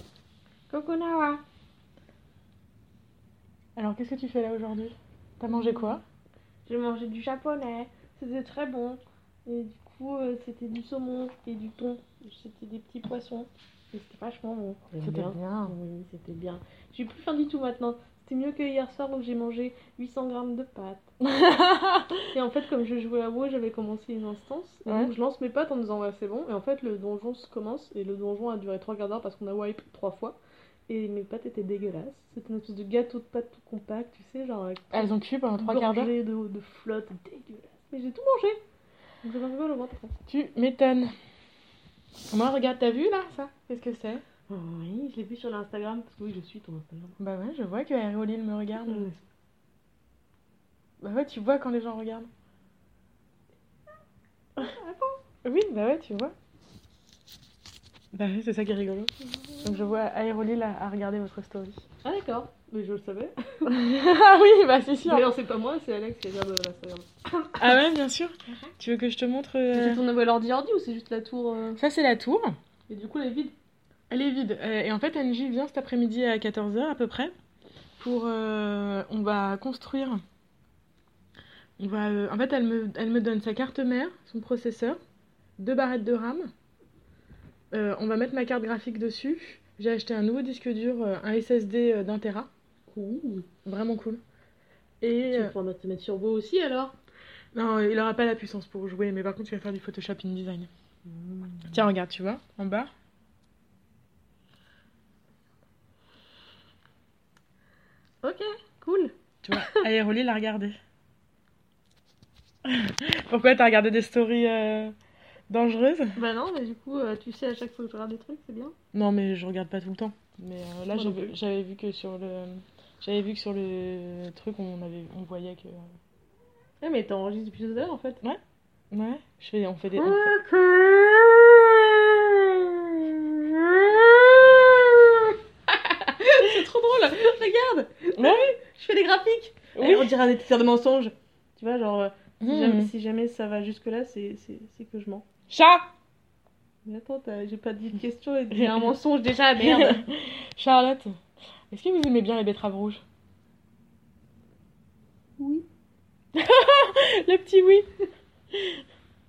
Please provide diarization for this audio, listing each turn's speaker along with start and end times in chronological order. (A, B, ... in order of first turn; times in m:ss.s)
0:00.7-0:01.4 A
0:03.8-0:06.0 B
0:05.5-0:06.0 A
0:06.7-0:21.1 A
0:15.0-0:15.8 B
0:21.2-0:22.3 B
0:22.3-0:38.6 A
0:24.9-0:25.1 B
0:34.9-0:36.1 B
0:39.2-0:40.1 A
0:40.3-0:41.1 B
0:42.3-0:44.2 B
0:44.5-0:47.2 A
0:47.2-0:49.1 B
0:48.8-0:49.2 A
0:51.0-0:52.3 B
0:54.6-0:55.2 A
0:55.4-0:56.4 B
0:58.1-1:01.8 B
0:59.4-0:59.7 A
1:02.0-1:03.8 A
1:03.7-1:05.3 B
1:05.0-1:07.8 A
1:07.6-1:10.0 B
1:09.7-1:11.8 A
1:11.8-1:12.5 B
1:12.9-1:13.5 A
1:14.1-1:17.3 B
1:18.0-1:20.2 B
1:21.8-1:25.0 B
1:25.6-1:26.5 B
1:27.7-1:32.5 B
1:32.9-1:33.5 A
1:33.6-1:34.2 B
1:35.0-1:35.5 B
1:35.3-1:37.0 A
1:37.5-1:40.7 B
1:41.1-1:41.8 A
1:41.7-1:42.9 B
1:48.2-1:49.8 A
1:49.4-1:50.8 B
1:52.6-1:54.9 B
1:55.5-1:56.2 B
1:56.2-1:58.8 A
1:58.9-2:05.9 B
2:00.9-2:01.3 A
2:06.8-2:08.2 A
2:08.9-2:10.3 B
2:09.9-2:25.3 A
2:18.2-2:18.5 B
2:19.8-2:20.1 B
2:22.4-2:22.9 B
2:25.5-2:25.9 B
2:26.8-2:30.0 A
2:28.5-2:28.9 B
2:29.6-2:31.1 B
2:31.7-2:33.0 B
2:35.4-2:35.7 A
2:36.4-2:37.9 B
2:38.5-2:38.8 B